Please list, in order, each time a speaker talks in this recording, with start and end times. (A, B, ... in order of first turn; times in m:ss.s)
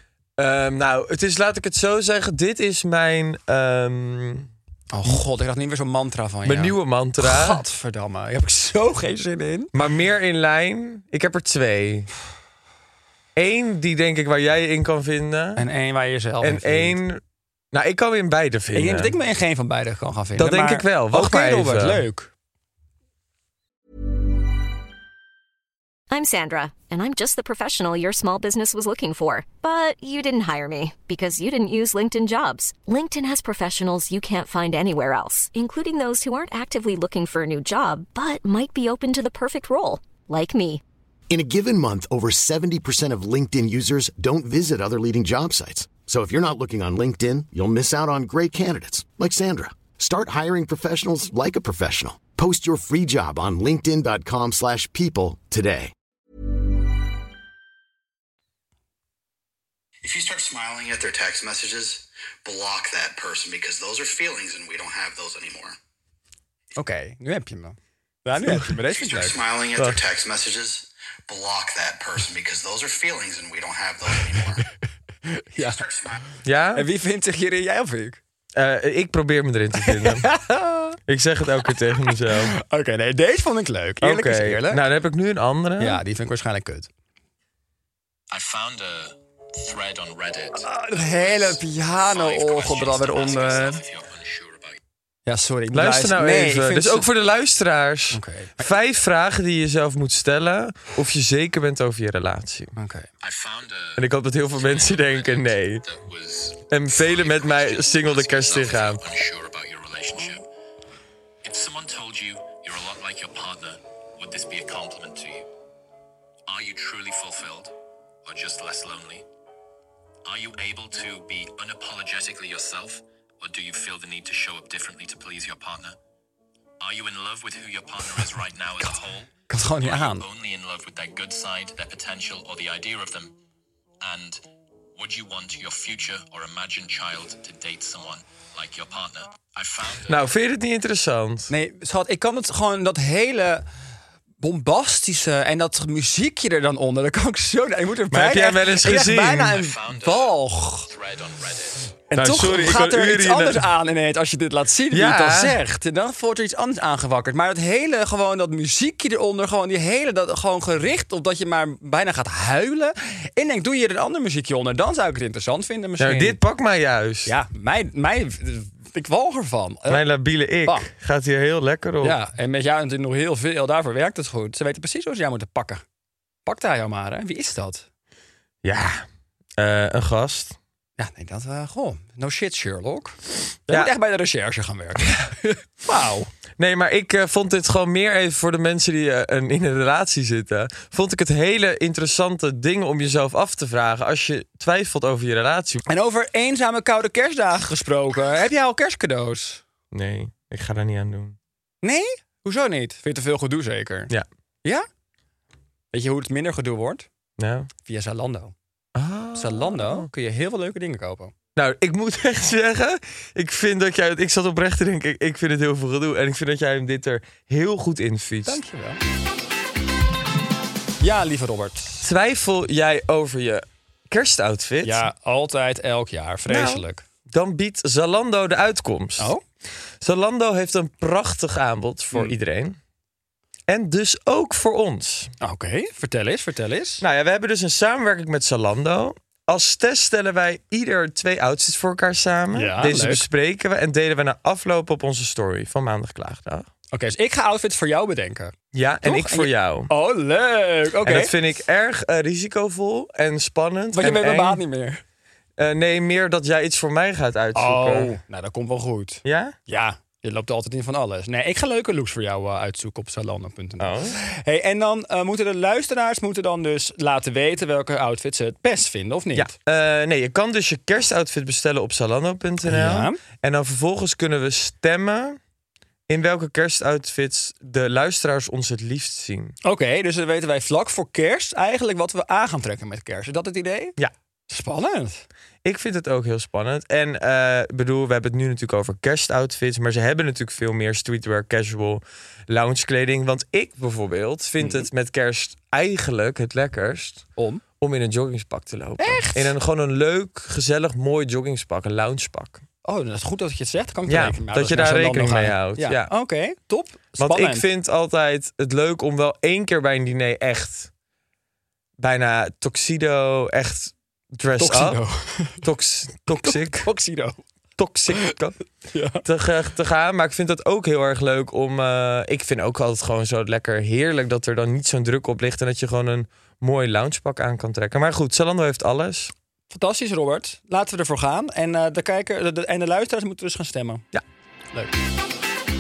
0:00.4-0:04.5 A
0:04.9-0:09.7 B
0:06.4-0:07.6 A
0:09.7-0:12.1 A
0:13.4-0:15.6 A
0:15.6-0:17.0 B
0:16.4-0:19.1 A
0:18.7-0:22.3 B
0:20.4-0:22.0 A
0:26.1-0:40.8 C
0:41.3-0:55.9 D
1:00.0-1:05.8 E
1:06.8-1:09.4 B
1:08.9-1:14.6 E
1:09.8-1:10.0 A
1:15.3-1:15.8 B
1:15.6-1:16.2 E
1:16.4-1:16.9 A
1:16.8-1:18.2 B
1:18.6-1:20.3 A
1:19.8-1:21.0 B
1:21.1-1:22.5 A
1:22.3-1:24.8 B
1:24.0-1:26.0 A
1:25.8-1:26.9 B
1:28.3-1:34.8 F
1:30.6-1:33.8 B
1:35.2-1:37.1 B
1:35.7-1:42.7 A
1:38.1-1:38.7 B
1:42.8-1:43.1 B
1:43.2-1:50.4 F
1:44.0-1:45.9 A
1:46.7-1:49.0 A
1:51.4-1:55.5 F
1:56.5-1:57.7 F
1:58.2-1:59.2 F
2:00.2-2:06.0 F
2:06.8-2:13.3 F
2:09.5-2:10.2 B
2:14.0-2:14.4 F
2:15.0-2:20.2 F
2:20.1-2:21.5 A
2:21.5-2:23.6 B
2:24.4-2:30.9 B
2:28.1-2:29.6 A
2:29.5-2:32.0 F
2:32.1-2:46.4 B
2:32.1-2:33.6 A
2:34.9-2:35.6 A
2:46.0-2:47.3 A
2:47.2-2:50.0 B
2:49.9-2:52.2 A
2:52.0-2:55.8 B
2:56.5-2:57.9 B
2:58.6-2:59.0 A
2:59.6-3:00.6 A
3:01.0-3:06.3 B
3:06.6-3:15.8 A
3:15.9-3:19.6 B
3:19.9-3:21.4 A
3:21.8-3:24.1 B
3:25.9-3:27.1 B
3:27.4-3:27.7 A
3:27.8-3:28.5 B
3:29.0-3:30.1 A
3:29.4-3:31.3 B
3:31.6-3:38.6 A
3:38.5-3:39.0 B
3:41.0-3:42.0 B
3:42.0-3:45.1 A
3:44.8-3:47.0 B
3:46.5-3:49.4 A
3:49.2-3:49.4 B
3:50.0-3:52.8 A
3:53.7-3:55.3 A
3:55.4-3:57.0 B
3:57.0-4:06.7 A
4:02.5-4:03.2 B
4:06.9-4:11.3 B
4:08.7-4:09.9 A
4:11.0-4:14.6 A
4:13.9-4:15.0 B
4:15.6-4:18.1 A
4:17.5-4:29.5 B
4:19.2-4:19.6 A
4:23.8-4:24.1 A
4:29.4-4:35.4 A
4:32.6-4:33.2 B
4:36.1-4:39.6 A
4:39.6-4:44.0 B
4:44.5-4:45.2 B
4:45.6-4:57.3 A
4:54.6-4:54.9 B
4:57.4-4:57.6 B
4:57.8-5:02.6 A
4:59.0-4:59.5 B
5:02.8-5:07.7 B
5:04.1-5:06.1 A
5:07.2-5:10.9 A
5:12.0-5:15.0 A
5:14.6-5:15.6 B
5:15.6-5:16.9 A
5:16.4-5:17.4 B
5:17.8-5:18.6 A
5:18.9-5:19.2 B
5:19.2-5:29.3 A
5:29.7-5:34.1 B